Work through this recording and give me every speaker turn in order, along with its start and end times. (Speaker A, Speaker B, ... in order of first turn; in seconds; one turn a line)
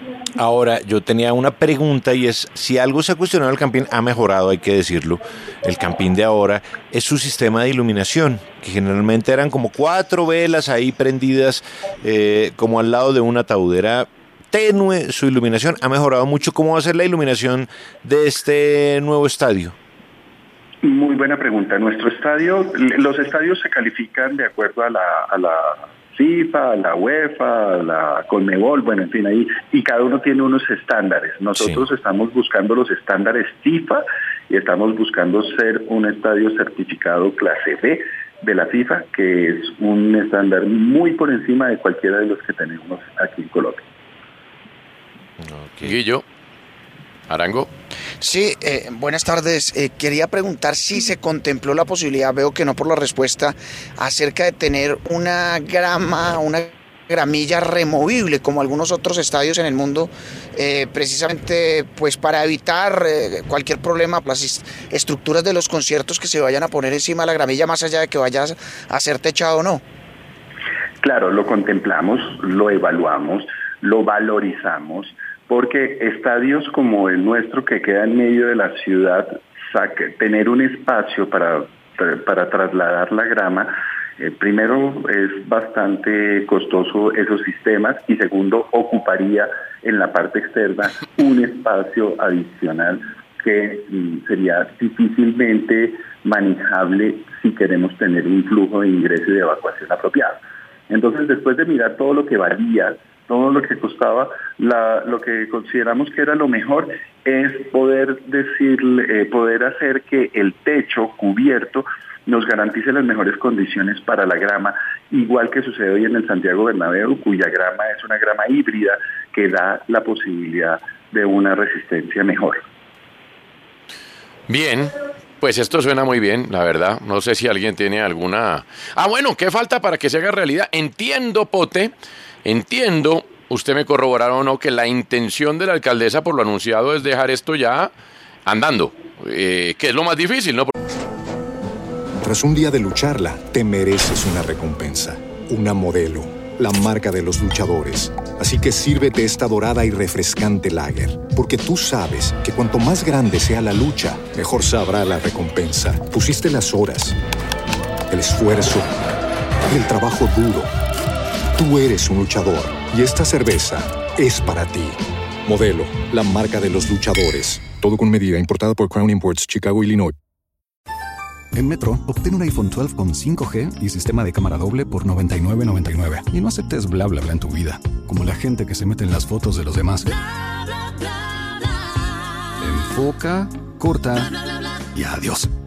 Speaker A: 0.4-19.8
Speaker B: 20.8-43.9
Speaker A: 45.4-45.9
Speaker C: 45.8-46.2
Speaker C: 47.3-47.7
Speaker D: 48.2-69.8
Speaker B: 71.0-122.6
Speaker C: 124.5-131.9
Speaker C: 132.4-137.9
Speaker C: 138.5-140.7
Speaker E: 142.2-157.2
Speaker E: 158.1-158.9
Speaker E: 159.7-160.7
Speaker E: 161.6-170.2
Speaker F: 171.5-180.1
Speaker F: 182.6-184.3
Speaker F: 184.9-185.5